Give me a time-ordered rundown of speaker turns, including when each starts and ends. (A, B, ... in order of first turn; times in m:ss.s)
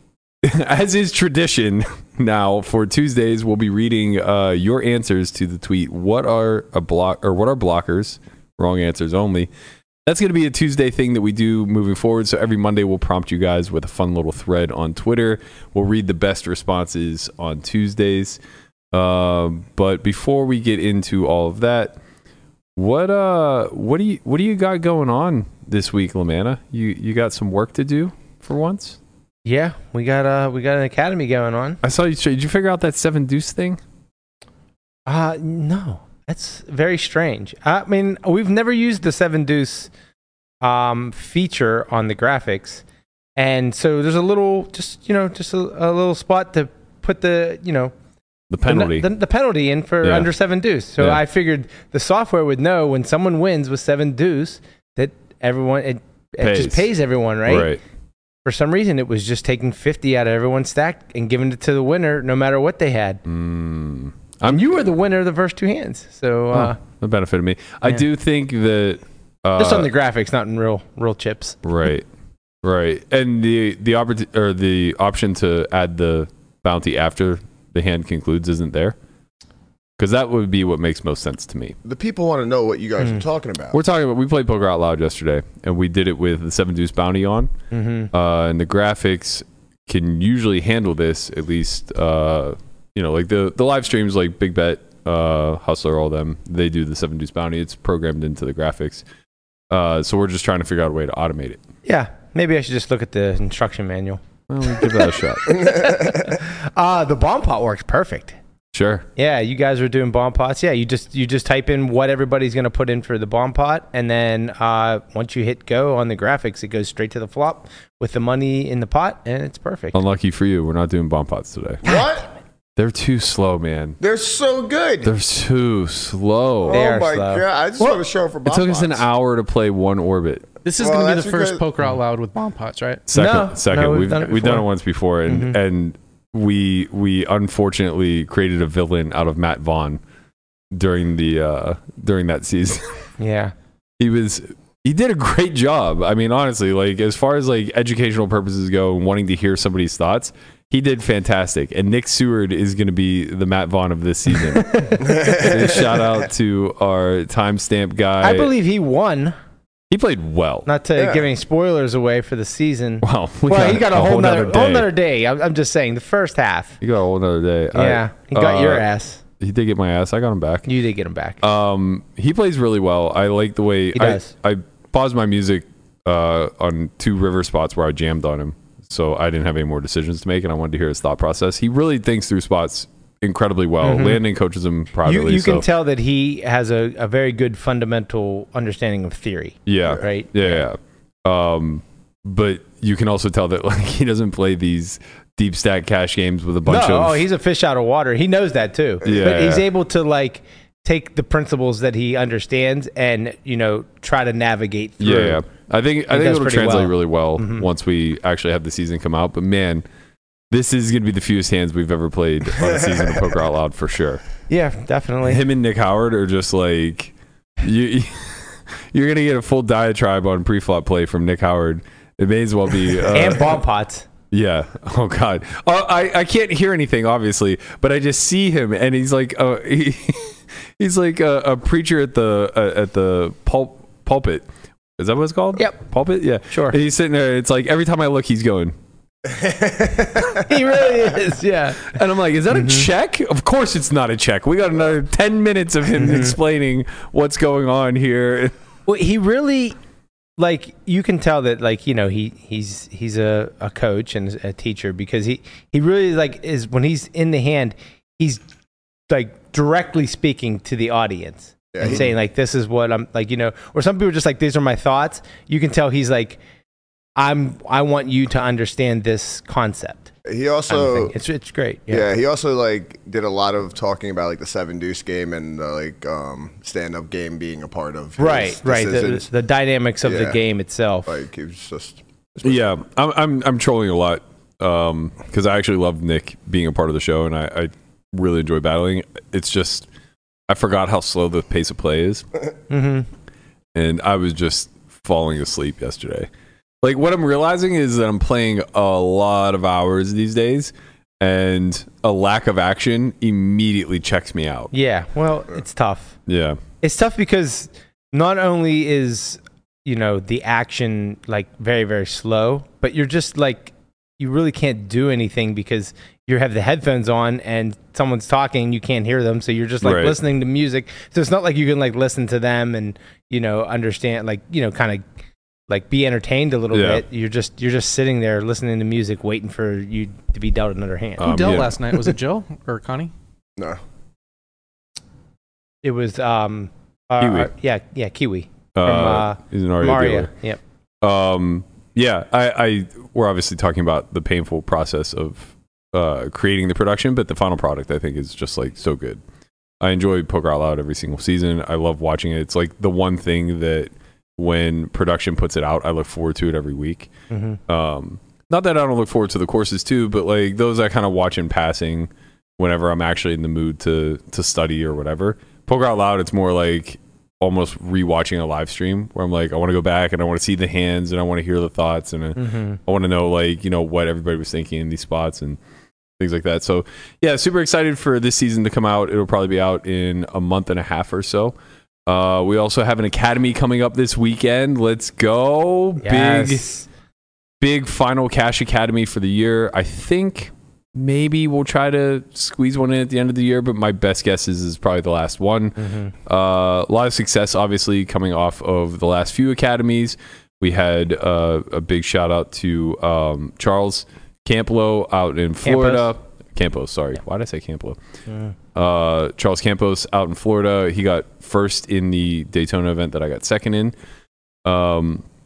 0:00.4-0:09.5 A
0:10.0-0:18.4 A
0:18.9-0:22.0 A
0:22.8-0:29.0 A
0:29.4-0:31.8 B
0:31.8-0:33.8 A
0:35.1-0:39.9 B
0:40.6-0:42.8 B
0:43.4-0:47.9 B
0:48.5-0:49.1 A
0:48.6-0:57.7 B
0:50.0-0:50.3 A
0:56.4-0:56.9 A
0:57.4-0:57.8 A
0:58.4-1:03.2 B
1:03.2-1:04.7 A
1:04.4-1:06.8 B
1:06.5-1:09.9 A
1:09.6-1:11.6 B
1:11.6-1:12.1 A
1:12.6-1:19.0 A
1:20.0-1:21.8 A
1:21.8-1:23.8 C
1:23.7-1:27.5 A
1:27.7-1:28.1 B
1:28.1-1:39.0 A
1:39.7-1:41.6 A
1:41.8-1:48.4 B
1:44.5-1:45.6 A
1:48.7-1:49.0 A
1:49.2-2:00.0 B
1:59.9-2:01.8 A
2:01.8-2:02.3 C
2:02.8-2:04.0 A
2:04.0-2:05.1 C
2:05.0-2:06.8 A
2:06.6-2:09.0 C
2:06.7-2:07.4 B
2:07.8-2:10.4 A
2:10.6-2:13.0 D
2:10.8-2:11.6 C
2:13.1-2:20.0 A
2:13.1-2:14.6 B
2:15.3-2:15.6 B
2:20.7-2:23.1 A
2:23.2-2:23.5 B
2:24.0-2:38.5 A
2:34.3-2:35.5 B
2:35.0-2:36.1 C
2:38.2-2:39.3 B
2:39.9-2:40.7 A
2:40.6-2:46.8 B
2:41.0-2:41.2 C
2:43.0-2:44.9 A
2:46.8-2:48.9 A
2:47.7-2:49.2 B
2:49.4-2:50.7 A
2:50.6-2:51.4 B
2:51.4-3:05.6 A
2:53.9-2:54.3 B
3:03.8-3:04.2 B
3:05.0-3:10.6 B
3:09.7-3:17.2 A
3:16.6-3:25.4 B
3:19.0-3:19.7 A
3:25.0-3:29.8 A
3:26.1-3:27.6 B
3:30.5-3:34.2 A
3:34.5-3:35.4 B
3:35.2-3:43.6 A
3:43.1-3:44.1 B
3:44.3-3:54.4 A
3:55.0-3:58.7 A
3:56.5-3:56.8 B
3:59.2-4:00.5 C
4:00.3-4:02.0 B
4:01.8-4:08.5 A
4:02.5-4:02.9 B
4:06.0-4:06.4 B
4:08.9-4:09.8 B
4:10.4-4:18.4 B
4:19.1-4:26.4 B
4:21.7-4:22.1 C
4:27.2-4:30.1 B
4:30.2-4:31.1 C
4:30.7-4:32.1 B
4:31.9-4:39.3 C
4:38.2-4:41.1 B
4:40.0-4:40.4 C
4:41.0-4:42.6 C
4:42.4-4:49.9 A
4:50.5-4:52.2 A
4:52.7-4:53.1 B
4:53.7-4:56.3 A
4:56.8-5:04.7 A
5:04.7-5:06.2 B
5:06.3-5:06.6 A
5:06.8-5:25.0 B
5:19.8-5:20.2 A
5:25.7-5:31.6 B
5:26.7-5:27.0 A
5:31.2-5:31.8 A
5:31.2-5:33.1 D
5:35.8-5:40.6 B
5:37.2-5:37.5 A
5:38.7-5:40.3 A
5:41.0-5:49.2 A
5:49.8-5:57.1 A
5:57.3-5:57.6 B
5:57.7-6:15.6 A
6:12.4-6:12.8 B
6:16.2-6:21.5 A
6:22.0-6:26.6 A
6:26.0-6:26.9 B
6:27.6-6:48.0 A
6:35.8-6:36.1 B
6:45.6-6:46.1 B
6:48.3-6:48.5 B
6:48.7-6:53.9 A
6:54.6-6:55.2 A